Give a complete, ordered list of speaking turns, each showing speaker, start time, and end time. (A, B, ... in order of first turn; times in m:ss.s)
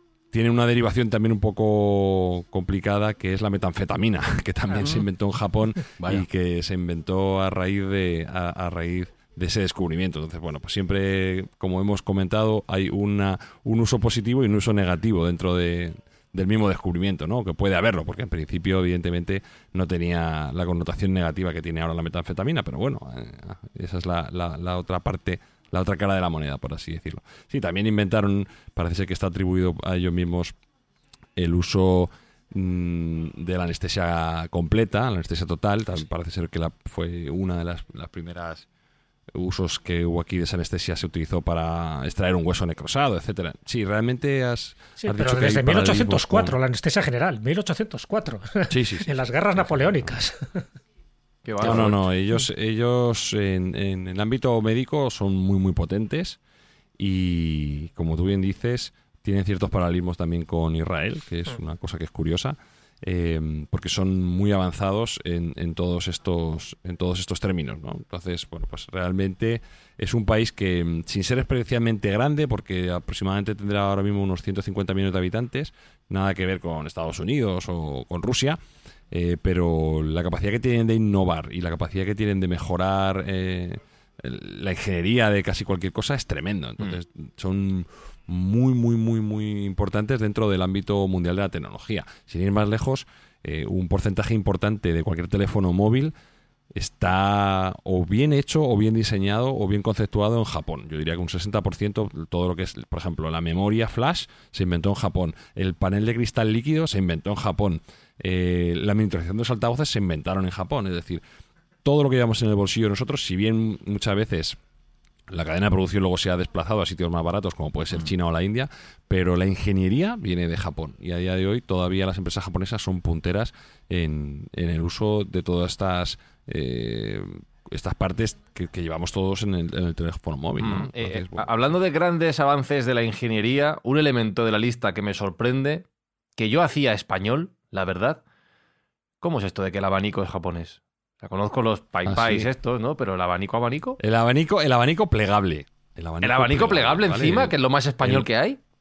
0:00.3-0:30.5 A
0:31.4-0:38.7 A
0:39.3-0:46.6 A
0:45.0-0:50.6 B
0:48.7-0:50.1 A
0:51.5-0:52.0 C
0:51.6-0:56.4 A
0:57.0-1:18.6 A
1:19.1-1:36.1 A
1:36.7-1:51.2 A
1:51.8-1:54.6 A
1:55.3-2:11.5 A
2:10.6-2:15.8 C
2:16.4-2:18.2 C
2:19.2-2:24.0 C
2:22.1-2:22.5 A
2:24.0-2:28.3 A
2:26.2-2:28.6 C